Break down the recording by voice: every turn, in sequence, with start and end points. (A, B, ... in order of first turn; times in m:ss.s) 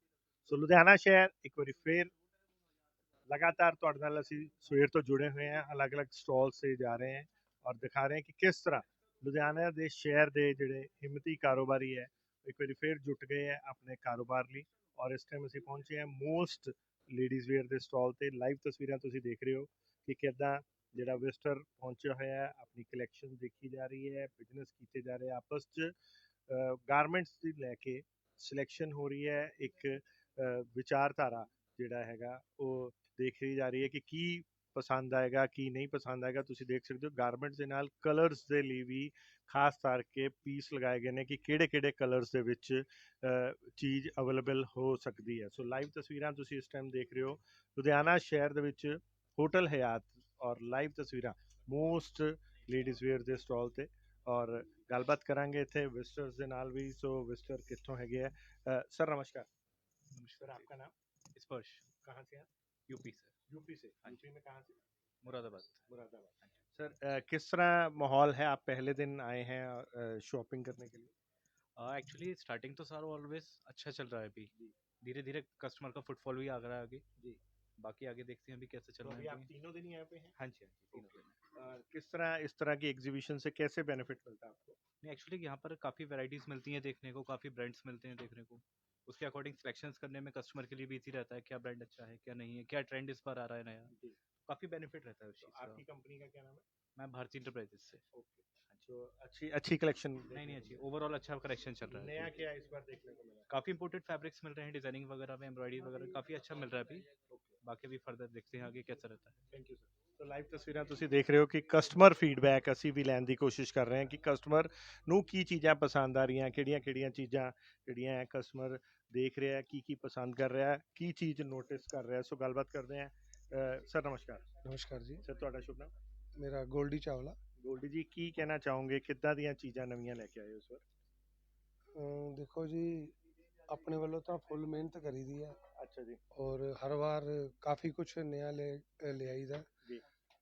0:00.4-0:02.1 A
0:03.3-0:25.9 A
0:26.5-0:59.5 A
1:00.1-1:00.7 B
1:00.4-1:00.9 A
1:01.3-1:01.9 B
1:02.0-1:02.5 A
1:02.9-1:03.3 B
1:03.5-1:04.8 A
1:05.2-1:05.8 B
1:05.9-1:11.1 A
1:11.8-1:14.5 B
1:15.0-1:17.0 B
1:17.8-1:19.5 B
1:19.0-1:20.3 A
1:20.4-1:21.3 B
1:20.9-1:24.8 A
1:25.0-1:33.9 B
1:34.5-1:35.8 B
1:35.4-1:36.6 A
1:37.0-1:38.0 B
1:38.1-1:40.8 A
1:40.3-1:42.3 B
1:41.9-1:43.5 A
1:43.5-1:47.1 B
1:47.3-1:47.6 A
1:47.6-1:49.3 B
1:49.5-2:04.4 A
2:04.6-2:05.2 C
2:05.2-2:05.9 A
2:06.4-2:07.4 C
2:07.6-2:10.8 A
2:11.9-2:15.6 C
2:15.8-2:16.2 A
2:16.3-2:19.7 C